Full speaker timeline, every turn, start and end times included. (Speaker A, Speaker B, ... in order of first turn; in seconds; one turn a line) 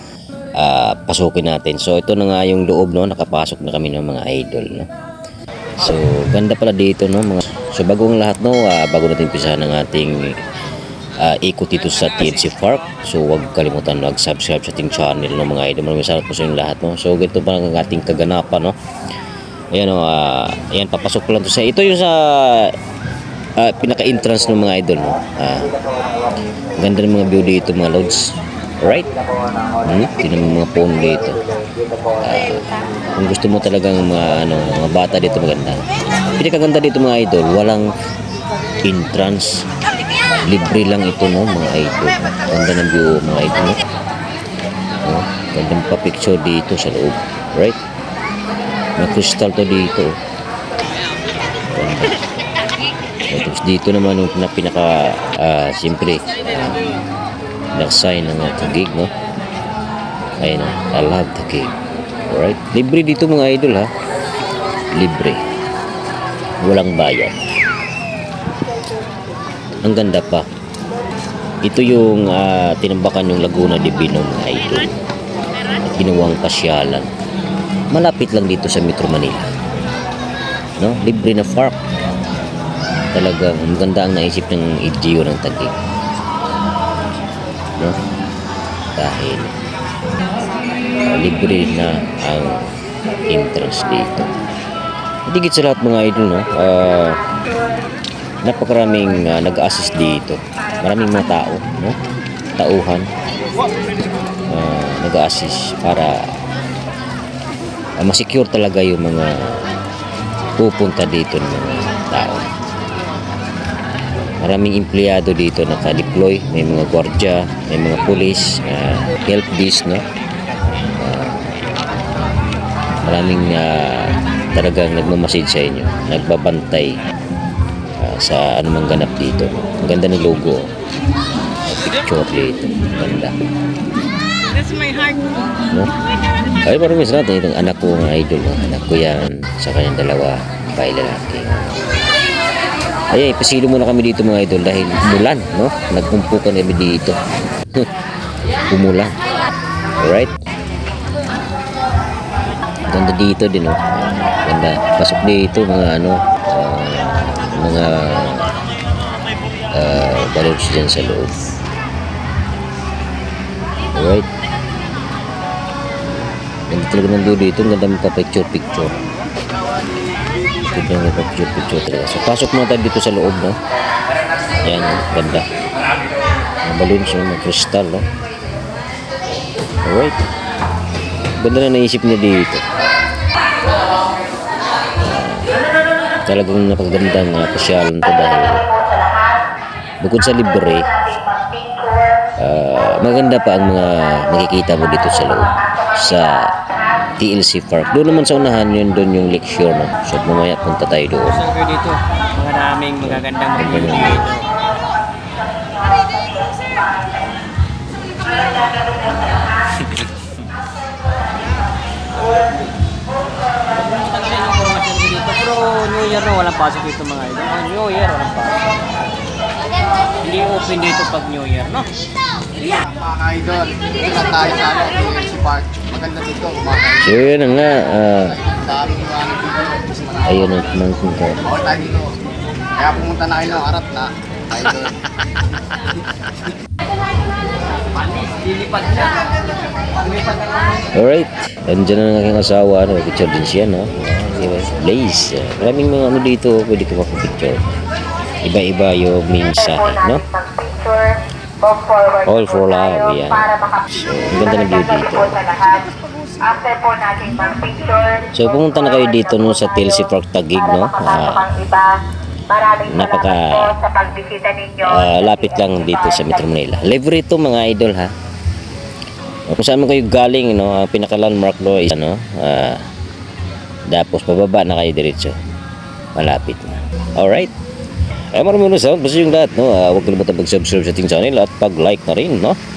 Speaker A: 0.6-4.9
Speaker A: 5.8-10.4
Speaker A: 11.2-18.8
Speaker A: 19.7-22.8
Speaker A: 23.6-25.8
Speaker A: 26.7-29.1
Speaker A: 29.8-31.4
Speaker A: 32.2-37.9
Speaker A: 38.8-39.6
Speaker A: 40.4-43.8
Speaker A: 45.0-47.8
Speaker A: 49.0-50.1
Speaker A: 51.7-52.2
Speaker A: 53.3-56.9
Speaker A: 57.8-59.1
Speaker A: 60.4-61.7
Speaker A: 62.3-63.9
Speaker A: 64.9-65.4
Speaker A: 66.6-67.5
Speaker A: 69.8-70.5
Speaker A: 71.6-74.9
Speaker A: 75.8-77.1
Speaker A: 77.9-79.5
Speaker A: 80.8-81.8
Speaker A: 83.1-85.8
Speaker A: 89.0-89.5
Speaker A: 91.0-92.7
Speaker A: 93.3-94.3
Speaker A: 95.3-97.2
Speaker A: 98.4-102.0
Speaker A: 102.6-103.1
Speaker A: 104.5-106.3
Speaker A: 108.0-109.5
Speaker A: 110.6-112.5
Speaker A: 114.4-120.0
Speaker A: 121.0-121.6
Speaker A: 123.0-127.0
Speaker A: 128.0-130.7
Speaker A: 131.7-133.3
Speaker A: 136.6-141.8
Speaker A: 143.1-147.2
Speaker A: 148.7-149.2
Speaker A: 150.0-150.3
Speaker A: 152.9-158.5
Speaker A: 159.7-161.4
Speaker A: 163.9-164.3
Speaker A: 166.7-168.9
Speaker A: 170.7-173.6
Speaker A: 174.6-175.5
Speaker A: 176.6-178.1
Speaker A: 179.8-180.2
Speaker A: 181.4-182.7
Speaker A: 185.0-185.5
Speaker A: 186.3-188.7
Speaker A: 190.0-191.0
Speaker A: 192.4-196.5
Speaker A: 197.2-201.5
Speaker B: 201.4-204.4
Speaker A: 203.0-204.4
Speaker B: 214.0-218.7
Speaker B: 220.2-221.9
Speaker C: 222.7-227.2
Speaker A: 227.0-228.4
Speaker C: 228.1-230.6
Speaker A: 230.2-231.5
Speaker C: 231.4-232.2
Speaker C: 232.8-234.9
Speaker A: 240.9-247.7
Speaker A: 248.4-250.3
Speaker A: 252.2-255.6
Speaker D: 256.5-258.2
Speaker A: 258.3-261.7
Speaker A: 262.8-263.8
Speaker D: 263.9-264.8
Speaker A: 264.8-268.1
Speaker A: 269.5-272.9
Speaker A: 273.9-275.4
Speaker A: 276.2-277.5
Speaker A: 278.3-282.6